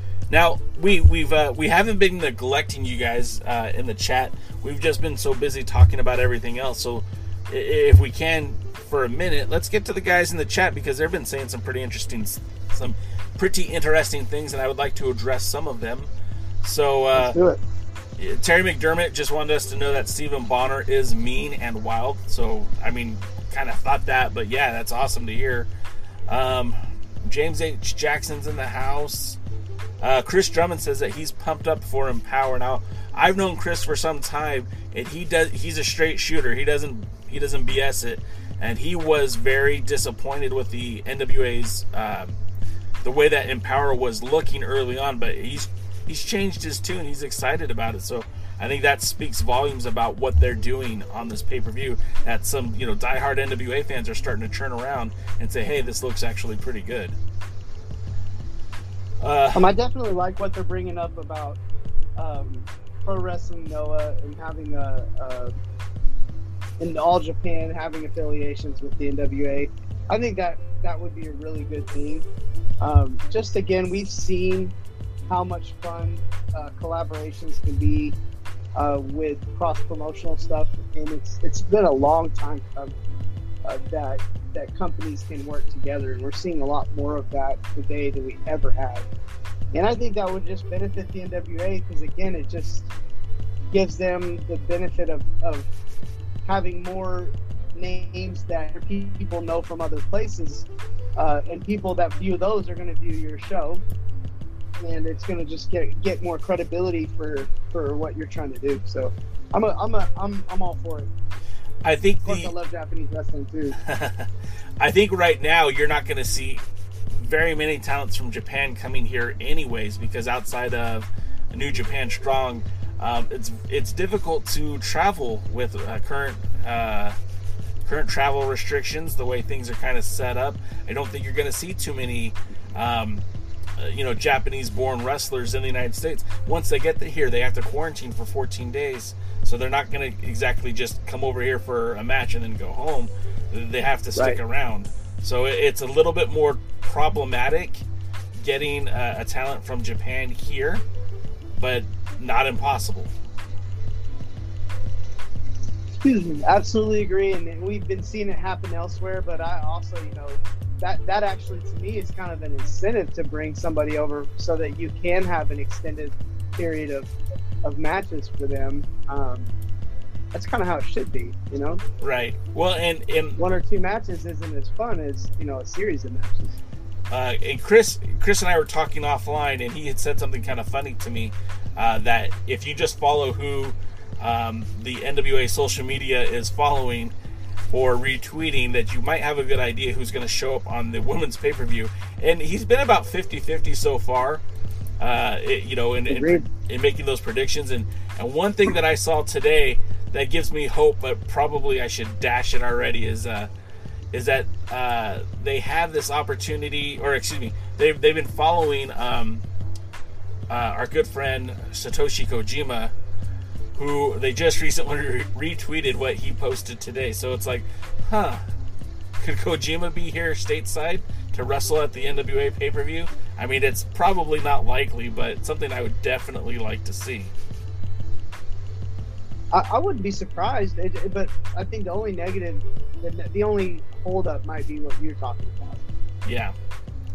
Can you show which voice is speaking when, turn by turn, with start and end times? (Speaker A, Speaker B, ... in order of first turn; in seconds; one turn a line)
Speaker A: 0.3-16.1
Speaker A: 16.6-17.4
Speaker B: 17.1-17.6
Speaker A: 18.2-25.7
Speaker A: 26.3-29.4
Speaker A: 30.0-42.3
Speaker A: 43.0-57.1
Speaker A: 59.2-59.7
Speaker B: 59.5-61.6
Speaker B: 62.2-65.5
Speaker B: 66.8-72.3
Speaker B: 72.8-74.7
Speaker B: 75.3-78.2
Speaker B: 78.8-83.0
Speaker B: 83.7-89.1
Speaker B: 89.7-92.9
Speaker B: 93.7-95.7
Speaker B: 96.5-103.8
Speaker B: 104.8-111.1
Speaker A: 111.8-112.5
Speaker B: 112.2-113.8
Speaker A: 113.8-127.2
Speaker A: 127.8-133.2
Speaker A: 133.8-147.8
Speaker A: 148.4-150.8
Speaker A: 151.6-153.1
Speaker B: 156.0-167.1
Speaker B: 167.6-169.5
Speaker B: 170.3-171.8
Speaker A: 172.0-173.4
Speaker B: 173.4-176.6
Speaker A: 177.1-187.1
Speaker A: 187.7-194.4
Speaker A: 195.0-203.5
Speaker B: 196.1-196.5
Speaker A: 204.1-209.4
Speaker A: 210.5-212.9
Speaker A: 213.8-218.4
Speaker A: 219.2-227.3
Speaker B: 229.5-235.8
Speaker A: 236.2-236.6